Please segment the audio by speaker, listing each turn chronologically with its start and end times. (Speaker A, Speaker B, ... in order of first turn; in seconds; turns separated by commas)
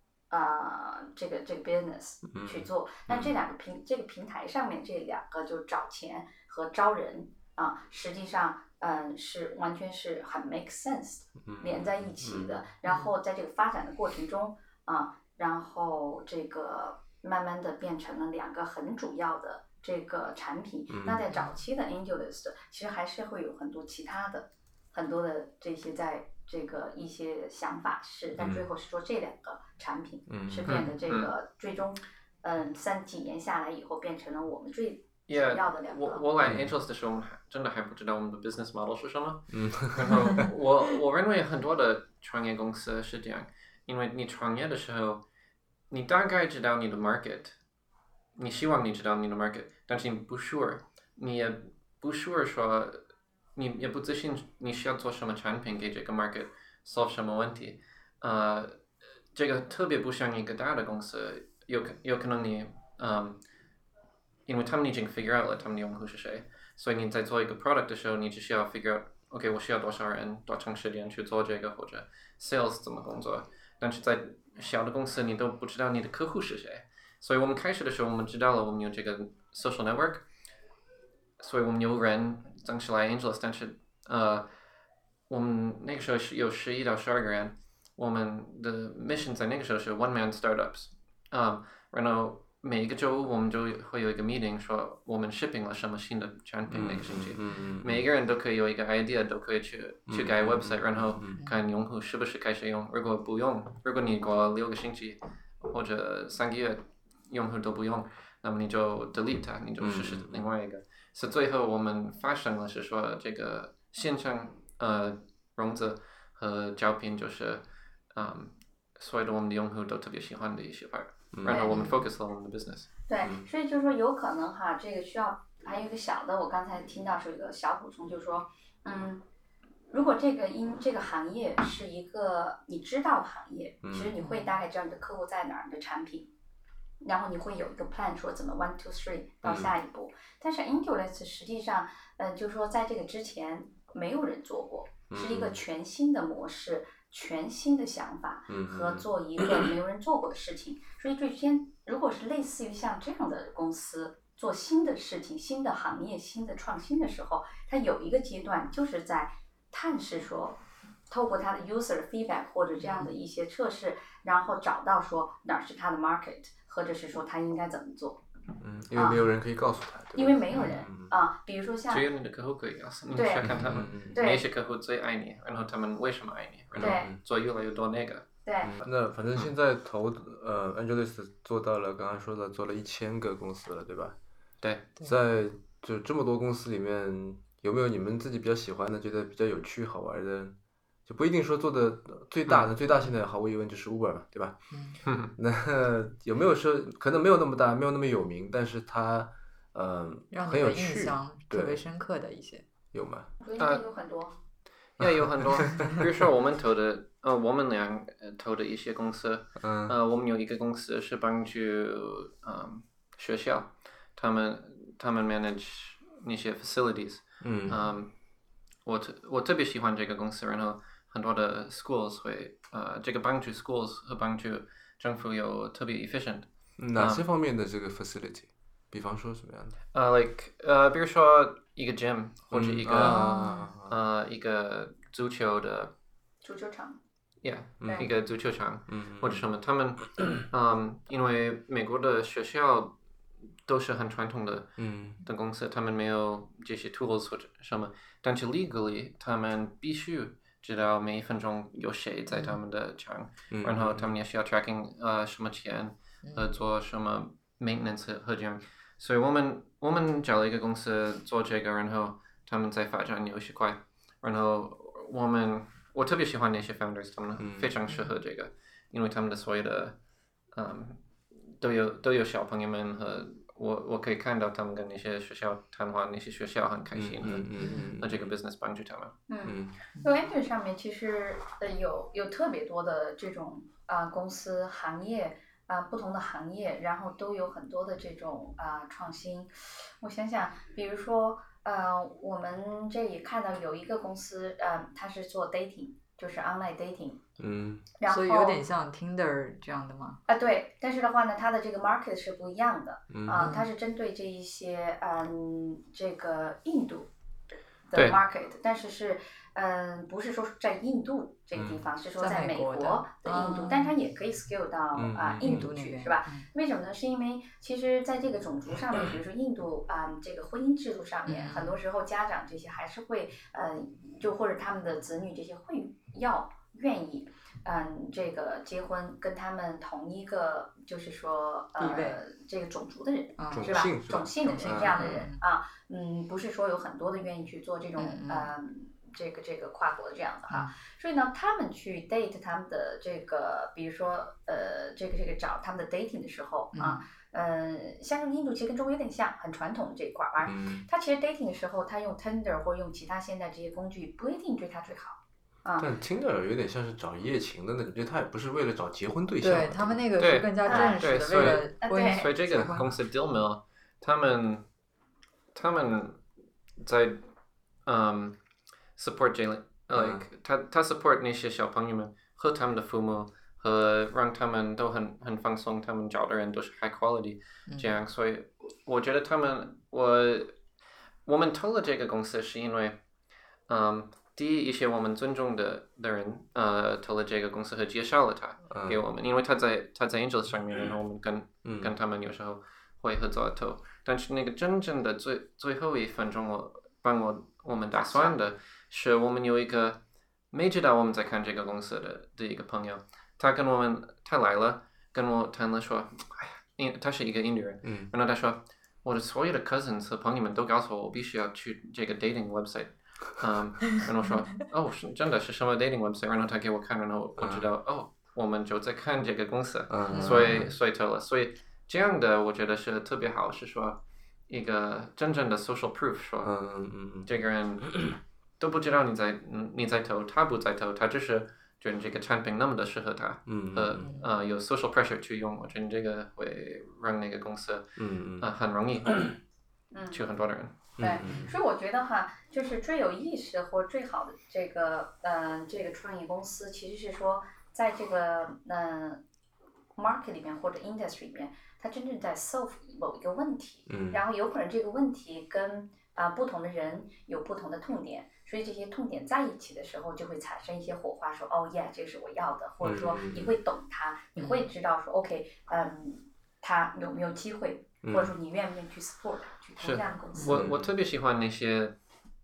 Speaker A: 0.3-36.2, Speaker B: 2.3-3.4, Speaker B: 11.4-12.6, Speaker C: 12.9-13.1, Speaker B: 20.9-21.2, Speaker B: 28.4-28.7, Speaker B: 30.3-30.8, Speaker D: 30.7-31.3, Speaker D: 35.3-45.2, Speaker B: 36.4-36.7, Speaker B: 39.5-40.5, Speaker D: 45.9-47.6, Speaker D: 48.4-53.0, Speaker D: 53.6-58.7, Speaker D: 59.3-63.4, Speaker D: 64.5-80.3, Speaker D: 81.4-84.5, Speaker D: 85.3-122.9, Speaker B: 96.7-98.0, Speaker B: 100.1-101.4, Speaker B: 109.8-110.4, Speaker B: 121.3-121.7, Speaker A: 121.5-121.8, Speaker C: 121.7-122.1, Speaker A: 123.1-129.2, Speaker B: 123.2-123.5, Speaker A: 129.9-136.3, Speaker B: 133.8-134.2, Speaker C: 134.2-134.5, Speaker A: 137.0-168.2, Speaker B: 139.4-139.7, Speaker B: 145.1-145.6, Speaker B: 148.5-149.1, Speaker B: 168.6-171.1, Speaker A: 170.2-172.1, Speaker D: 171.9-178.3, Speaker A: 173.1-174.5, Speaker B: 173.4-174.2, Speaker B: 176.7-177.2, Speaker A: 176.8-177.1, Speaker A: 178.4-178.7, Speaker B: 178.6-184.2, Speaker D: 184.6-184.9, Speaker B: 185.0-194.6, Speaker C: 194.7-195.0, Speaker D: 195.1-195.3, Speaker B: 195.3-201.8, Speaker C: 200.3-202.6, Speaker B: 202.9-203.3, Speaker A: 203.4-204.4, Speaker D: 203.6-203.8, Speaker B: 205.0-205.9, Speaker D: 205.0-218.1, Speaker B: 209.6-209.9, Speaker B: 217.4-217.8, Speaker D: 218.9-227.2, Speaker B: 226.8-229.8, Speaker D: 229.9-235.9, Speaker B: 232.5-233.9, Speaker C: 233.0-233.7, Speaker A: 236.4-237.0, Speaker D: 237.4-242.9, Speaker B: 237.8-238.1, Speaker B: 238.9-239.4, Speaker D: 243.7-270.0, Speaker B: 244.8-245.2, Speaker C: 252.3-252.6, Speaker B: 253.5-254.1, Speaker C: 256.2-256.5, Speaker B: 267.4-267.7, Speaker D: 270.5-279.2, Speaker B: 276.9-278.2, Speaker C: 277.6-277.9, Speaker A: 279.3-297.2, Speaker B: 279.4-279.8, Speaker B: 297.4-297.9, Speaker A: 298.0-298.6, Speaker C: 298.1-300.2, Speaker A: 300.3-307.1, Speaker B: 303.1-303.5, Speaker C: 303.4-303.7, Speaker A: 307.9-355.9, Speaker B: 311.6-311.8, Speaker C: 312.2-313.9, Speaker B: 314.9-315.7, Speaker C: 315.4-316.5, Speaker C: 321.3-321.8, Speaker C: 331.8-332.2, Speaker C: 333.4-333.9, Speaker B: 333.5-335.2, Speaker C: 334.4-335.4, Speaker C: 338.0-338.5, Speaker C: 340.5-340.8, Speaker C: 346.7-347.0, Speaker B: 350.4-350.9, Speaker B: 355.8-360.0, Speaker C: 359.4-362.9, Speaker D: 360.2-364.7, Speaker A: 360.6-361.0, Speaker B: 361.4-361.6, Speaker A: 361.8-362.3, Speaker B: 362.5-362.8, Speaker D: 365.5-366.2, Speaker D: 366.8-367.2, Speaker D: 367.9-368.4, Speaker D: 369.0-380.6, Speaker B: 369.9-370.2, Speaker C: 377.7-377.9, Speaker D: 381.2-383.0, Speaker D: 383.7-400.0, Speaker B: 388.7-389.0, Speaker B: 391.6-391.9, Speaker A: 397.9-398.4, Speaker D: 400.5-426.5, Speaker B: 407.8-408.1, Speaker B: 417.4-417.7, Speaker B: 419.9-420.7, Speaker C: 420.1-420.7, Speaker B: 426.4-427.3, Speaker D: 427.2-439.4, Speaker B: 433.5-434.1, Speaker C: 434.0-434.3, Speaker B: 438.0-438.5, Speaker A: 439.9-440.2, Speaker D: 440.1-440.9, Speaker B: 441.0-441.5, Speaker A: 441.0-449.2, Speaker C: 441.2-441.5, Speaker A: 450.0-470.6, Speaker B: 453.9-454.2, Speaker B: 462.8-463.6, Speaker C: 464.4-464.7, Speaker B: 468.0-468.3, Speaker D: 469.8-471.9, Speaker B: 470.4-470.9